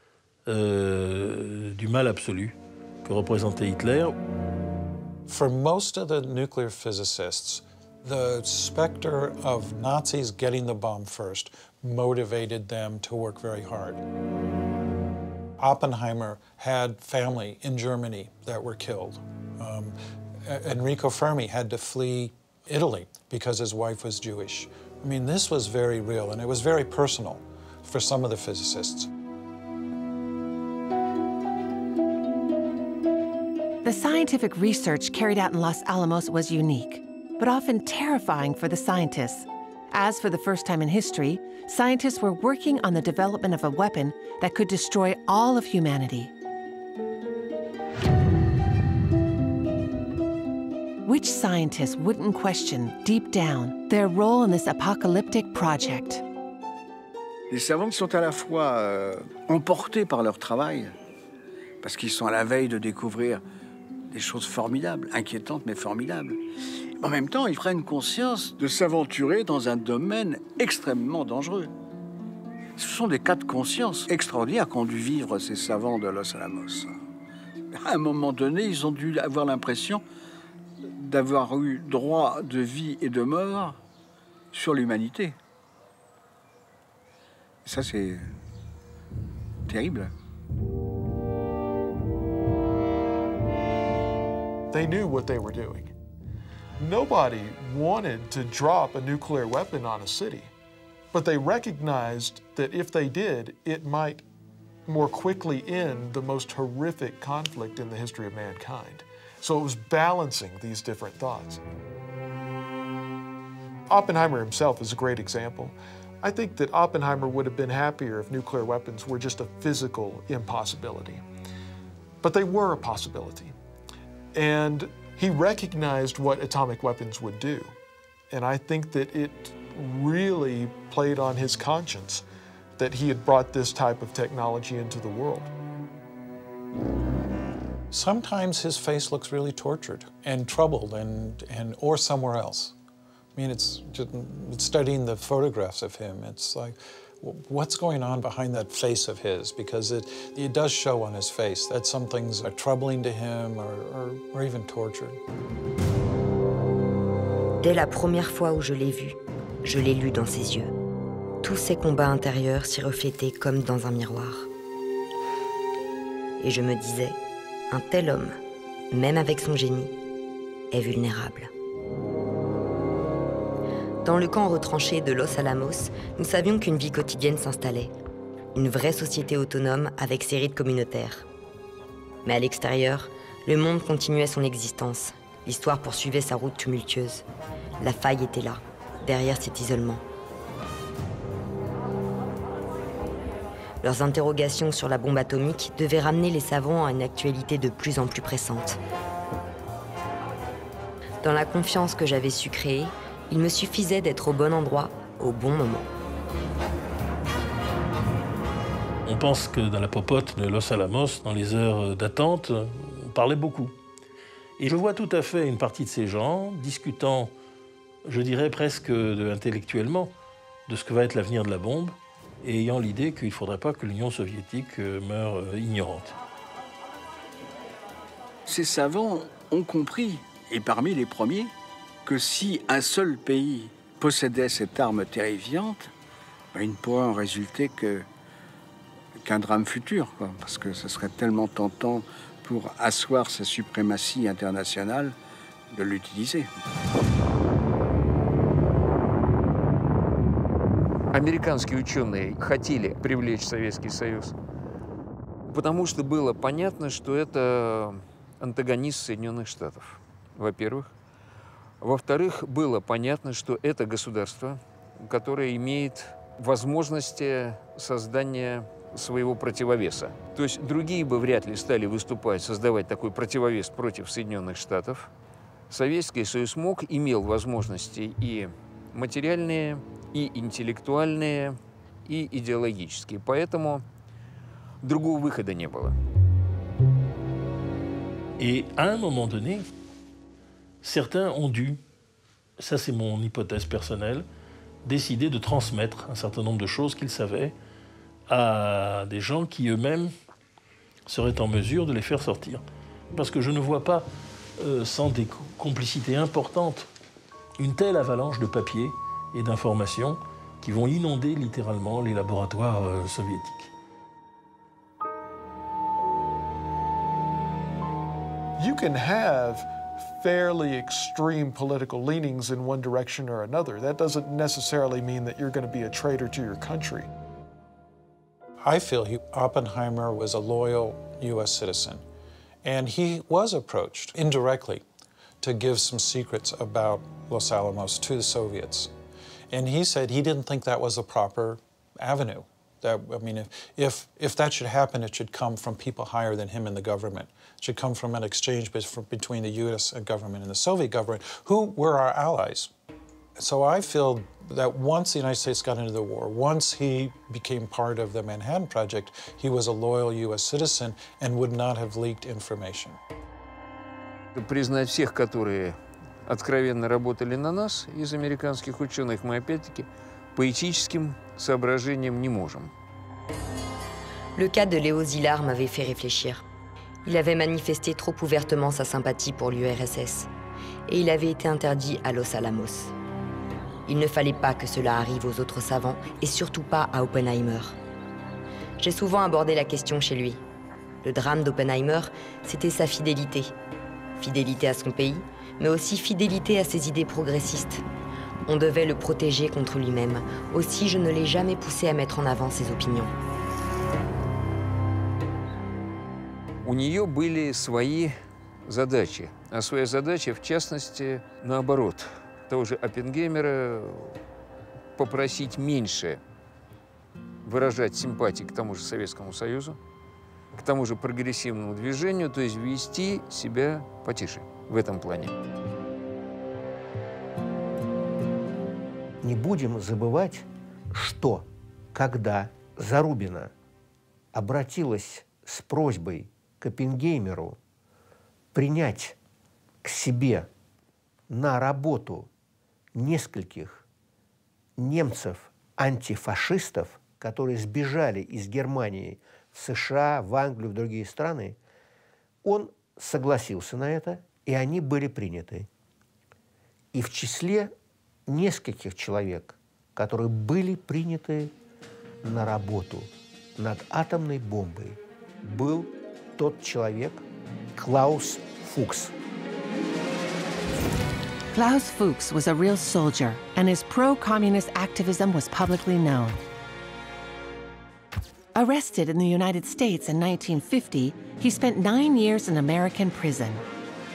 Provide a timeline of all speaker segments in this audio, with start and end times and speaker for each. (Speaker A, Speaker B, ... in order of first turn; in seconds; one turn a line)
Speaker A: 0.5-4.1
Speaker B: 5.3-14.0
Speaker B: 15.6-29.1
Speaker C: 33.8-46.3
Speaker C: 51.0-56.2
Speaker D: 57.5-60.9
Speaker D: 61.8-63.4
Speaker D: 64.1-66.4
Speaker D: 67.0-71.7
Speaker D: 72.8-77.0
Speaker D: 77.7-80.0
Speaker D: 81.0-83.8
Speaker D: 84.5-85.3
Speaker D: 87.6-88.3
Speaker D: 89.7-90.1
Speaker E: 94.7-95.9
Speaker E: 96.8-100.5
Speaker E: 101.1-104.2
Speaker E: 104.8-111.6
Speaker E: 113.9-121.2
Speaker E: 122.2-123.5
Speaker E: 124.3-127.8
Speaker E: 128.3-132.2
Speaker E: 132.8-135.5
Speaker B: 137.9-142.7
Speaker B: 143.3-155.2
Speaker F: 157.6-160.7
Speaker F: 161.4-164.5
Speaker F: 166.4-168.4
Speaker F: 168.9-169.9
Speaker F: 170.7-171.5
Speaker F: 174.0-177.9
Speaker F: 178.5-181.3
Speaker F: 182.2-187.2
Speaker F: 187.8-190.0
Speaker F: 193.8-198.8
Speaker F: 201.2-205.9
Speaker A: 209.0-213.7
Speaker A: 214.6-217.3
Speaker A: 218.1-220.1
Speaker A: 220.7-226.1
Speaker D: 228.4-231.5
Speaker D: 232.1-235.9
Speaker D: 236.5-238.1
Speaker D: 239.2-245.1
Speaker D: 245.7-246.5
Speaker G: 251.1-254.3
Speaker G: 255.5-260.9
Speaker G: 261.8-275.1
Speaker G: 275.7-283.8
Speaker G: 284.8-286.0
Speaker A: 288.4-289.7
Speaker A: 290.8-291.8
Speaker A: 292.6-294.2
Speaker A: 294.8-297.6
Speaker A: 298.3-300.1
Speaker A: 301.1-304.1
Speaker A: 304.6-306.9
Speaker A: 307.6-313.7
Speaker E: 318.6-327.1
Speaker B: 328.6-332.0
Speaker B: 332.6-334.8
Speaker B: 335.4-338.9
Speaker B: 339.5-352.7
Speaker B: 353.4-363.0
Speaker G: 364.3-372.7
Speaker F: 374.4-376.4
Speaker F: 377.0-380.3
Speaker F: 380.9-382.9
Speaker F: 383.9-387.8
Speaker F: 388.8-390.4
Speaker F: 391.0-393.5
Speaker F: 394.2-397.8
Speaker F: 398.4-403.1
Speaker G: 406.6-408.1
Speaker G: 408.6-414.2
Speaker G: 414.9-416.2
Speaker G: 417.4-419.8
Speaker G: 420.5-425.3
Speaker H: 429.2-433.5
Speaker H: 434.3-437.6
Speaker H: 438.5-439.2
Speaker H: 439.8-440.5
Speaker H: 441.3-442.3
Speaker H: 442.9-443.8
Speaker H: 444.8-451.6
Speaker H: 452.4-455.7
Speaker H: 456.9-457.7
Speaker H: 458.3-461.5
Speaker H: 462.2-467.2
Speaker H: 467.8-469.1
Speaker C: 471.5-476.4
Speaker C: 478.5-483.6